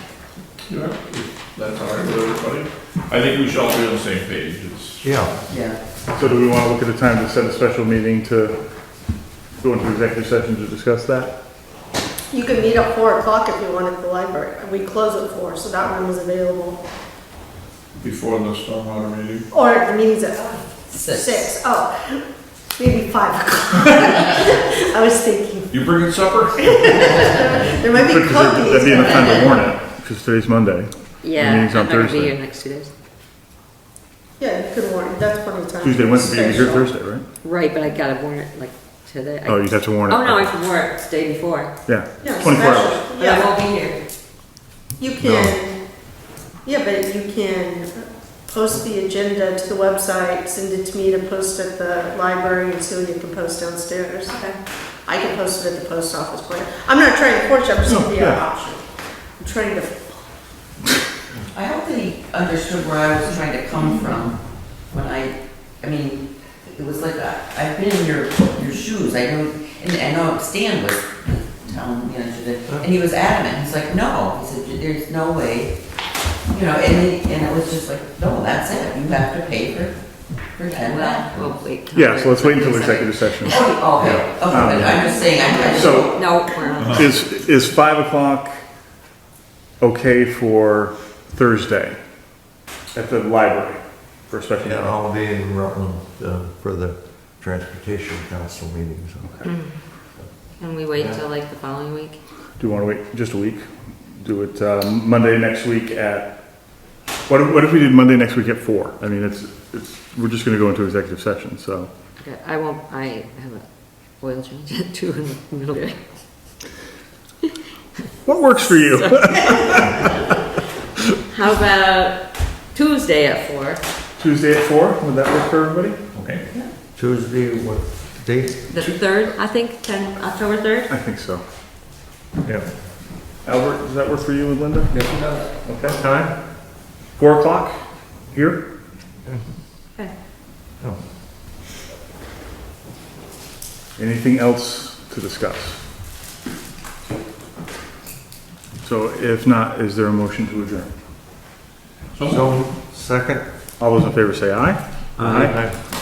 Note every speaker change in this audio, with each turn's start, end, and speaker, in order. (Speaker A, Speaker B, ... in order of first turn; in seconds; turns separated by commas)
Speaker A: 0.7-5.1, Speaker B: 5.0-5.3, Speaker C: 5.5-5.8, Speaker D: 6.1-8.6, Speaker D: 9.6-11.3, Speaker E: 12.3-16.8, Speaker A: 18.0-19.4, Speaker E: 19.5-22.2, Speaker C: 20.9-21.5, Speaker E: 22.8-25.8, Speaker A: 25.7-26.5, Speaker E: 26.6-29.6, Speaker D: 27.9-32.4, Speaker F: 31.2-32.9, Speaker E: 34.4-36.9, Speaker D: 35.8-37.2, Speaker F: 37.4-41.7, Speaker D: 39.5-40.5, Speaker D: 41.9-43.1, Speaker E: 42.2-43.5, Speaker F: 43.2-44.0, Speaker E: 45.0-45.8, Speaker D: 45.2-45.5, Speaker E: 46.6-54.5, Speaker E: 55.1-58.8, Speaker D: 57.8-58.4, Speaker E: 59.4-60.3, Speaker C: 61.5-75.7, Speaker C: 76.5-80.0, Speaker C: 80.6-81.3, Speaker F: 80.7-83.8, Speaker D: 81.9-85.1, Speaker C: 83.5-86.2, Speaker F: 84.8-87.1, Speaker D: 85.7-86.2, Speaker D: 86.8-88.6, Speaker D: 89.8-92.0, Speaker D: 92.9-94.9, Speaker B: 94.6-99.5, Speaker F: 99.4-99.7, Speaker F: 100.6-102.2, Speaker D: 102.6-106.4, Speaker D: 107.3-111.9, Speaker F: 112.2-113.7, Speaker F: 114.2-116.0, Speaker D: 118.2-120.1, Speaker F: 118.6-120.1, Speaker F: 121.3-123.8, Speaker D: 124.2-126.0, Speaker A: 126.1-126.4, Speaker B: 126.9-128.8, Speaker F: 128.7-130.9, Speaker D: 130.9-131.4, Speaker D: 133.4-135.1, Speaker D: 135.7-136.3, Speaker D: 137.2-137.8, Speaker D: 138.3-138.6, Speaker D: 144.0-145.8, Speaker D: 148.8-150.9, Speaker B: 152.2-153.4, Speaker D: 153.8-155.7, Speaker B: 155.2-155.7